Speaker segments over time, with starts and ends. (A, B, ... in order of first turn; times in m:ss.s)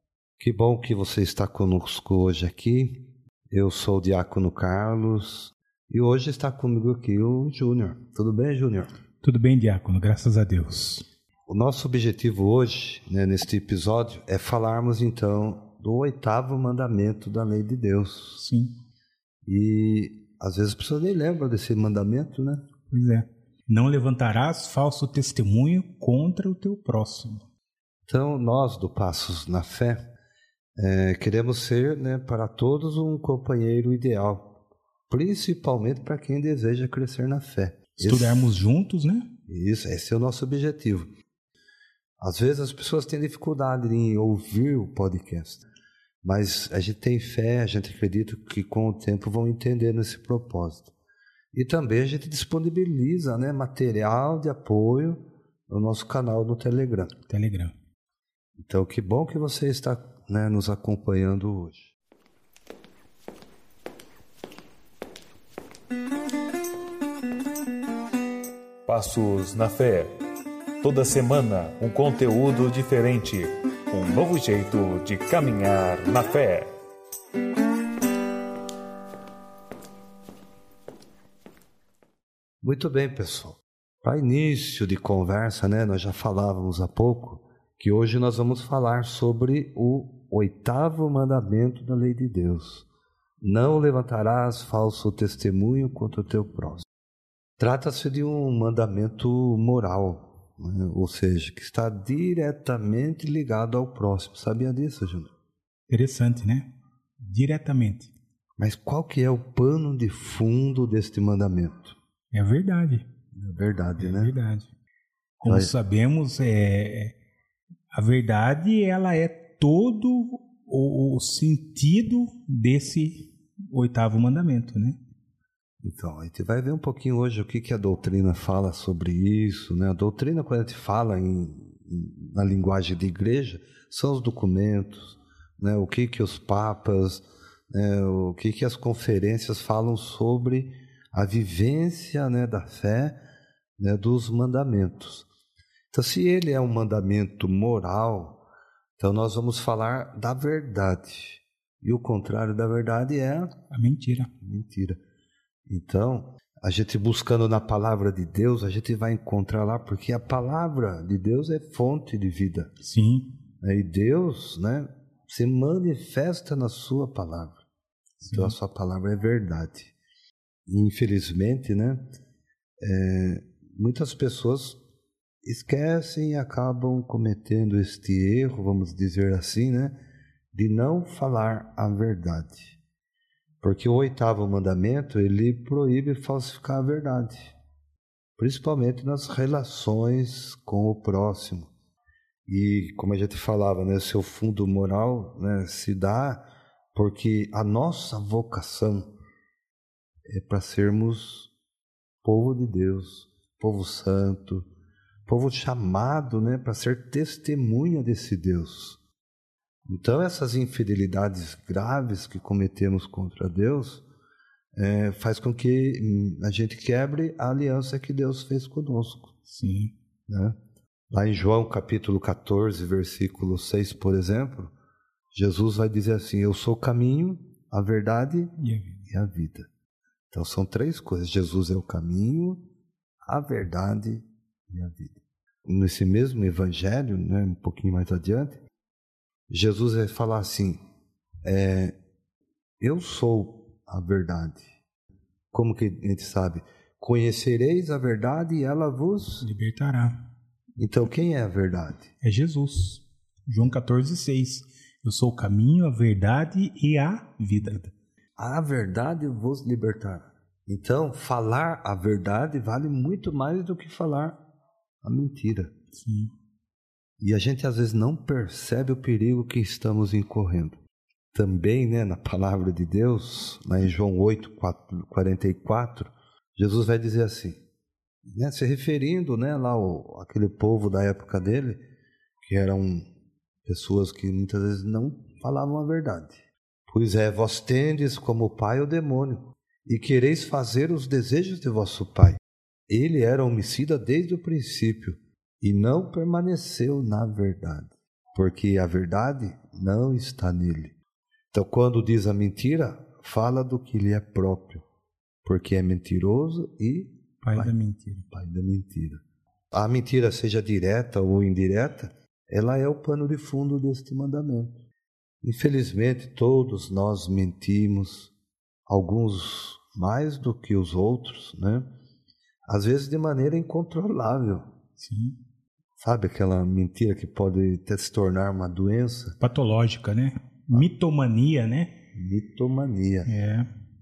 0:00.4-0:08.9 A
0:09.2-0:11.1 B
0:11.5-0:18.4 A
0:18.4-0:18.8 B
0:19.4-0:22.6 A
0:22.9-0:27.4 B
0:28.1-0:30.0 A
0:30.8-0:34.6 A
0:35.1-0:38.6 A
0:38.0-0:39.3 B
0:39.5-0:41.1 A
0:42.2-0:45.6 A
0:46.2-0:50.9 A
0:51.5-0:57.1 A
0:57.3-0:57.7 B
0:58.6-1:01.9 A
1:08.9-1:10.2 C
1:10.8-1:16.7 C
1:22.6-1:32.9 A
1:33.4-1:36.8 A
1:37.6-1:45.3 A
1:45.9-1:46.7 B
1:47.2-1:48.1 B
1:48.6-1:52.0 A
1:52.3-1:53.1 B
1:53.3-1:54.3 A
1:54.0-1:54.7 B
1:55.4-1:57.2 B
1:55.4-1:55.7 A
1:57.9-2:05.0 B
2:05.8-2:23.2 A
2:23.8-2:25.3 A
2:25.9-2:28.4 A
2:29.0-2:33.5 A
2:33.7-2:34.3 B
2:34.4-2:35.0 A
2:35.7-2:42.7 A
2:42.8-2:43.3 B
2:43.6-2:47.6 A
2:48.2-2:48.6 B
2:48.3-2:50.0 A
2:50.7-2:52.1 A
2:52.8-2:54.8 A
2:55.4-3:00.0 A
3:00.5-3:02.8 A
3:03.6-3:07.6 A
3:08.4-3:11.7 A
3:12.5-3:16.4 A
3:16.9-3:19.1 A
3:20.3-3:21.5 A
3:22.2-3:24.7 A
3:25.3-3:29.0 A
3:29.8-3:34.0 A
3:34.8-3:39.3 A
3:39.5-3:40.0 B
3:40.3-3:40.6 A
3:41.1-3:44.7 A
3:45.3-3:48.6 A
3:48.6-3:49.1 B
3:49.1-3:49.7 A
3:50.3-3:52.6 A
3:53.3-3:58.6 A
3:59.5-4:00.8 A
4:01.4-4:02.0 A
4:02.8-4:04.7 A
4:05.5-4:09.5 A
4:09.4-4:10.2 B
4:10.8-4:12.1 A
4:12.2-4:17.8 B
4:17.6-4:24.4 A
4:25.0-4:25.7 A
4:25.9-4:26.3 B
4:27.2-4:30.8 A
4:31.3-4:37.6 A
4:38.2-4:41.8 A
4:42.4-4:43.1 A
4:43.6-5:01.0 A
5:01.5-5:04.8 A
5:05.4-5:07.8 A
5:07.4-5:08.3 B
5:08.3-5:14.8 A
5:15.4-5:18.3 A
5:18.9-5:21.9 A
5:22.7-5:24.7 A
5:25.0-5:25.4 B
5:26.0-5:29.4 A
5:29.4-5:32.0 B
5:32.1-5:33.3 A
5:33.3-5:33.7 B